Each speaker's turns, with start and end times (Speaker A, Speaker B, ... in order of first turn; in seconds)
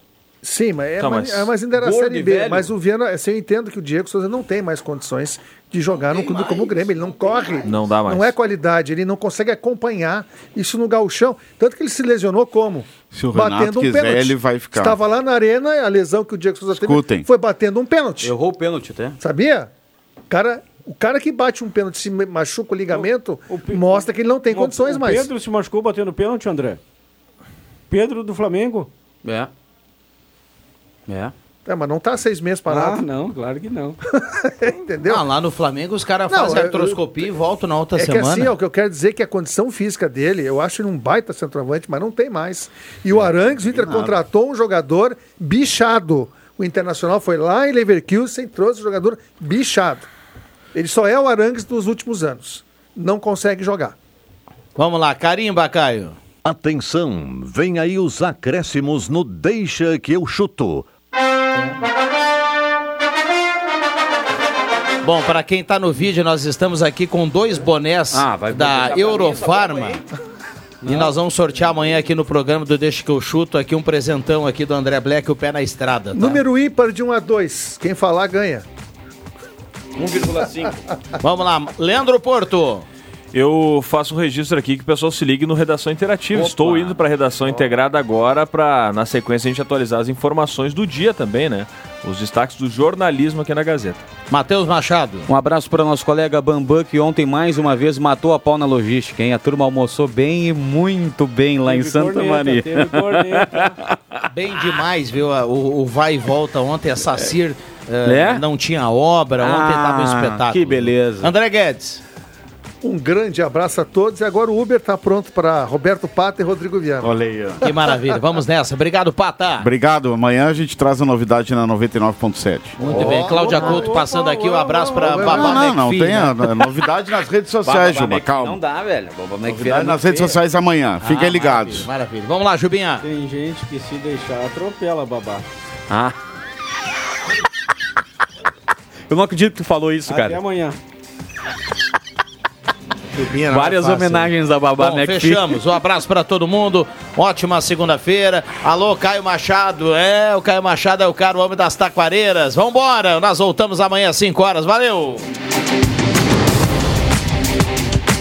Speaker A: 0.4-18.3, 19.2-19.7, 20.3-25.3, 31.6-33.0, 34.1-35.2, 36.3-37.0, 38.0-50.1, 50.7-53.9, 76.1-78.6, 112.8-117.8, 122.8-125.7
Speaker B: 1.0-1.5, 7.7-8.3, 83.3-94.0
Speaker C: 1.8-2.7, 18.2-19.2, 29.2-29.5, 31.1-31.3, 68.1-70.0, 70.8-71.1, 80.0-80.8, 86.6-86.9, 95.3-103.9, 108.0-108.4, 109.4-111.3, 122.9-123.8, 127.6-130.4, 135.9-136.2, 139.1-140.4, 143.5-145.6
Speaker D: 13.1-15.0, 16.7-17.3, 43.7-44.1, 117.0-117.6, 119.6-122.8, 125.2-128.6, 129.4-131.9
Speaker E: 22.9-26.8, 27.9-28.9, 32.7-34.0, 101.7-103.7, 123.0-125.2, 133.0-135.4, 140.1-140.8
Speaker F: 35.0-38.5, 54.8-56.2, 65.0-70.0, 70.8-76.4, 81.2-82.9, 94.3-95.3, 104.3-112.0, 117.6-119.7, 122.8-126.5, 131.0-133.0, 143.1-155.2
Speaker G: 56.4-60.8